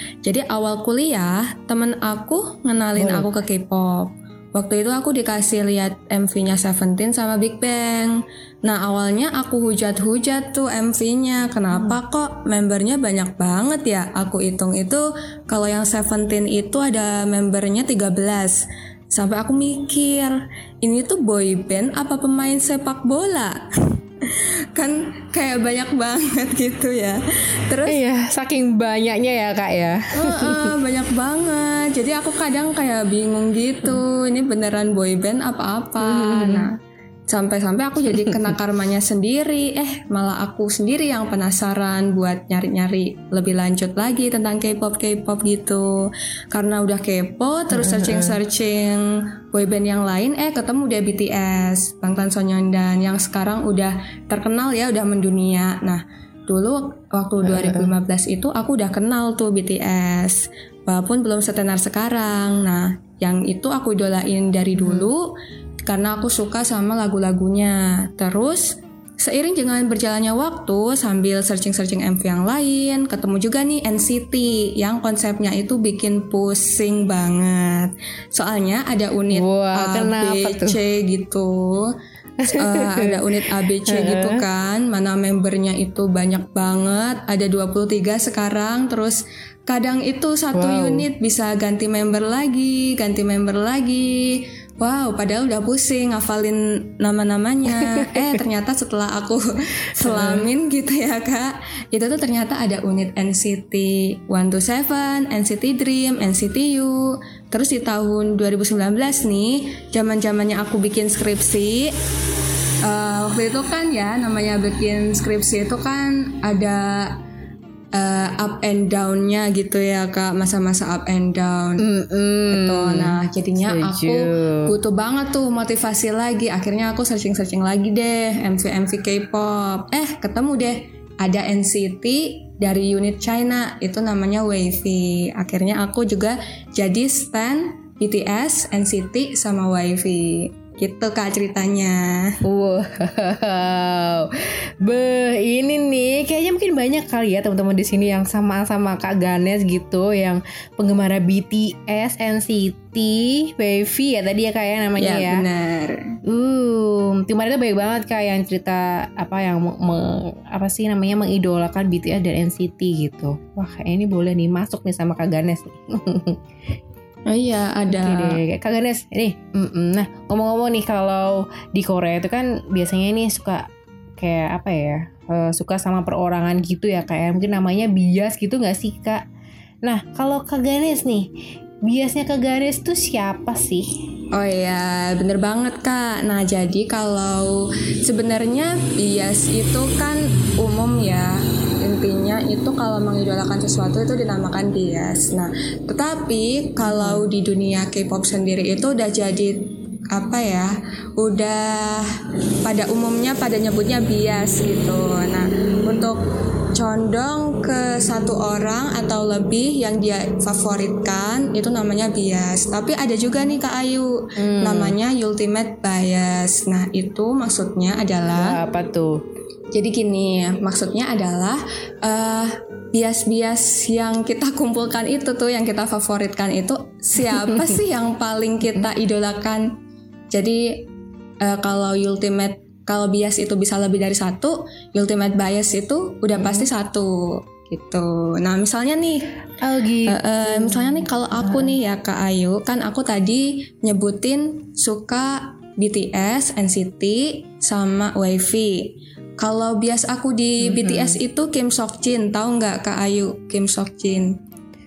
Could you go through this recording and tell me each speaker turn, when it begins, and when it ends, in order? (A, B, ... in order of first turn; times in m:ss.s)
0:00.2-0:08.1 A
0:03.0-0:03.3 B
0:08.6-0:23.6 A
0:11.7-0:12.0 B
0:24.8-0:28.0 A
0:27.9-0:30.7 B
0:30.2-0:36.7 A
0:36.0-0:36.7 B
0:37.3-1:05.3 A
0:38.1-0:38.6 B
0:47.7-0:48.4 B
0:57.4-0:57.9 B
1:04.8-1:05.1 B
1:05.8-1:21.9 A
1:19.3-1:20.8 B
1:22.4-1:23.2 B
1:22.5-1:51.9 A
1:23.8-1:24.4 B
1:30.5-1:31.1 B
1:37.8-1:38.4 B
1:40.0-1:40.5 B
1:52.8-1:57.1 A
1:58.0-2:01.8 A
2:01.8-2:04.8 B
2:02.5-2:22.0 A
2:22.4-2:24.3 B
2:24.8-2:35.4 B
2:35.0-2:36.0 A
2:36.3-2:46.4 B
2:47.3-2:48.4 A
2:47.9-2:53.7 B
2:54.2-2:59.2 B
2:59.8-3:01.3 B
3:01.9-3:03.9 B
3:04.3-3:07.5 A
3:08.0-3:19.6 A
3:16.8-3:17.3 B
3:20.1-3:22.0 A
3:22.6-3:26.2 A
3:26.7-3:34.1 A
3:34.4-3:35.0 B
3:34.6-3:38.6 A
3:38.3-3:39.2 B
3:39.7-3:49.6 A
3:47.2-3:47.8 B
3:50.3-3:50.8 A
3:51.4-3:57.1 A
3:56.4-3:56.7 B
3:57.7-3:59.2 A
3:59.6-4:01.8 B
4:00.1-4:14.3 A
4:10.6-4:11.2 B